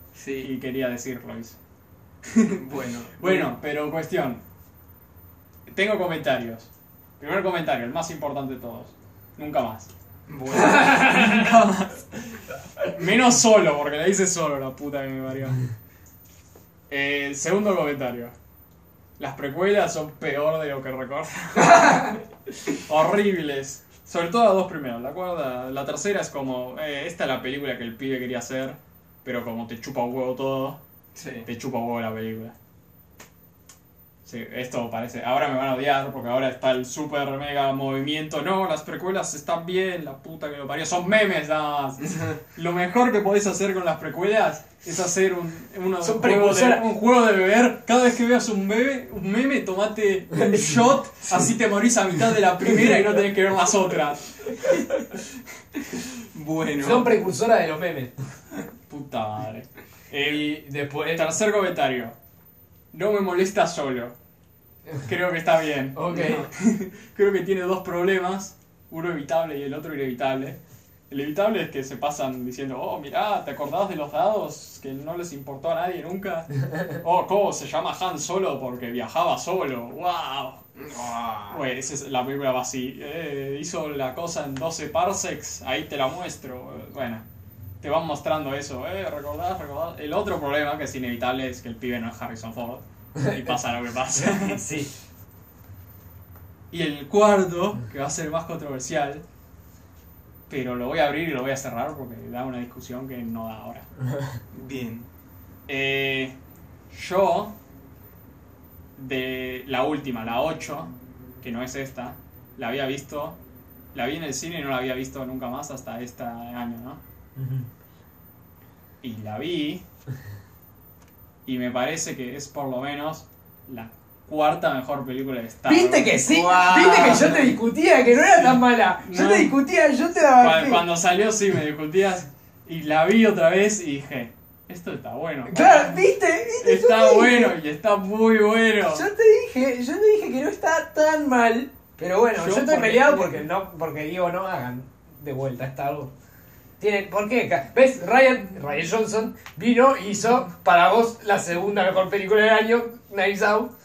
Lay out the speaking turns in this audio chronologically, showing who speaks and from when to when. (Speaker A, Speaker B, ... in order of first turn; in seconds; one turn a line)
Speaker A: 0.1-0.5
Speaker B: 0.4-1.6
Speaker B: 2.3-2.6
Speaker A: 2.5-3.5
Speaker B: 3.2-4.4
Speaker B: 5.7-9.9
Speaker A: 10.3-11.5
Speaker B: 10.6-12.3
Speaker B: 12.9-15.6
Speaker B: 16.9-18.3
Speaker B: 19.2-30.8
Speaker A: 31.1-31.5
Speaker B: 31.4-32.5
Speaker B: 34.2-54.8
Speaker C: 46.0-46.9
Speaker C: 50.3-50.8
Speaker A: 56.3-57.1
Speaker C: 56.8-58.1
Speaker B: 58.9-62.1
Speaker C: 60.2-61.3
Speaker B: 62.9-64.1
Speaker B: 65.0-70.6
Speaker C: 65.9-66.5
Speaker B: 71.1-80.6
Speaker A: 80.8-81.6
Speaker B: 81.5-87.2
Speaker B: 87.8-94.7
Speaker C: 93.2-93.5
Speaker C: 94.1-94.9
Speaker B: 96.7-99.2
Speaker B: 100.5-103.8
Speaker A: 104.5-105.1
Speaker B: 105.7-106.3
Speaker B: 106.9-107.5
Speaker B: 109.0-113.4
Speaker B: 113.9-117.0
Speaker C: 117.3-117.7
Speaker B: 119.0-119.8
Speaker B: 121.5-126.2
Speaker C: 125.7-130.8
Speaker A: 126.2-127.4
Speaker B: 126.8-127.6
Speaker B: 128.1-129.6
Speaker B: 130.3-136.0
Speaker C: 135.5-137.6
Speaker B: 136.6-139.1
Speaker C: 138.9-146.1
Speaker B: 142.3-143.4
Speaker C: 146.8-153.7